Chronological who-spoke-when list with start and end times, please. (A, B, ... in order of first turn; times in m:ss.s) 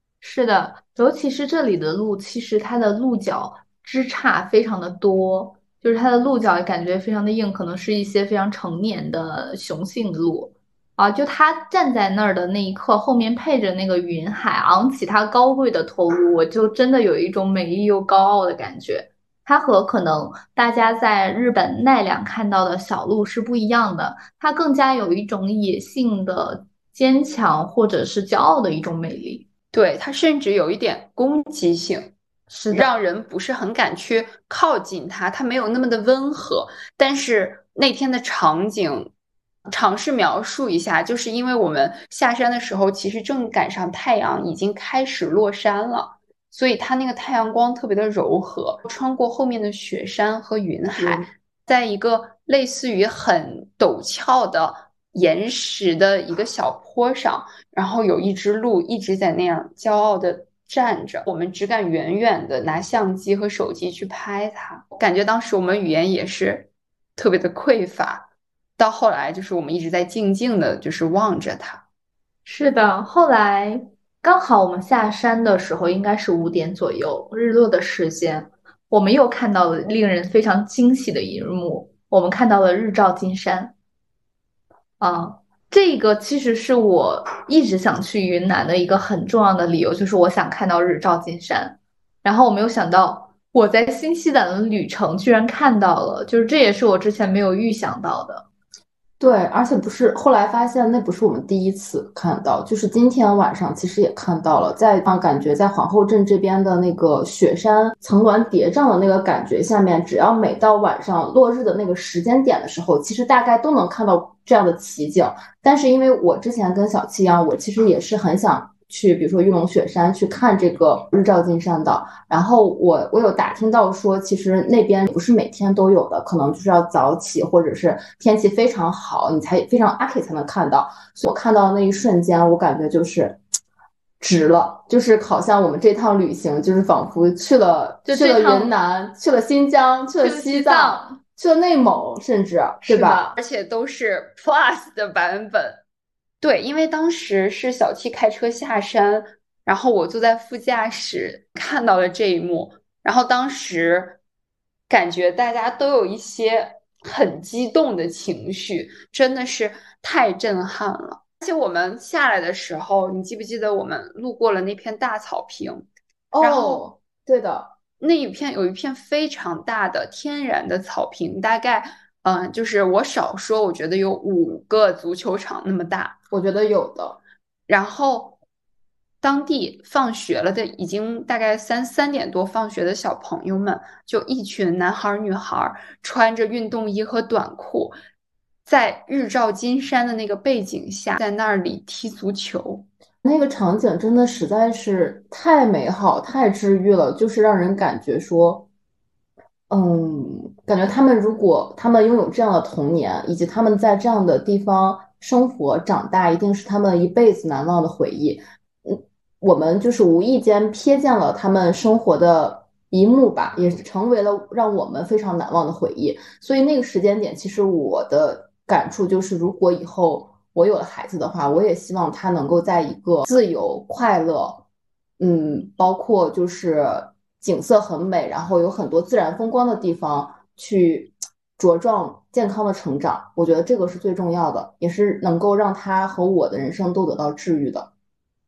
0:00.2-0:29.4 A
0:29.7-0:32.1 B
0:32.5-0:32.9 A
0:32.7-0:39.1 B
0:39.7-1:08.3 B
0:51.0-0:51.2 C
1:08.8-1:11.8 B
1:12.4-1:23.7 A
1:25.0-1:38.4 A
1:39.2-2:13.4 C
2:14.2-2:23.3 C
2:18.0-2:18.7 A
2:20.2-2:21.2 A
2:22.8-2:23.3 A
2:23.3-2:25.8 B
2:26.4-2:34.2 B
2:34.9-2:45.8 B
2:46.3-2:47.7 C
2:46.4-2:46.8 B
2:48.0-2:56.1 B
2:56.3-2:57.2 C
2:57.7-2:58.4 B
2:59.2-3:07.9 B
3:08.6-3:12.9 B
3:13.2-3:18.6 C
3:19.7-3:44.6 C
3:45.2-3:57.9 C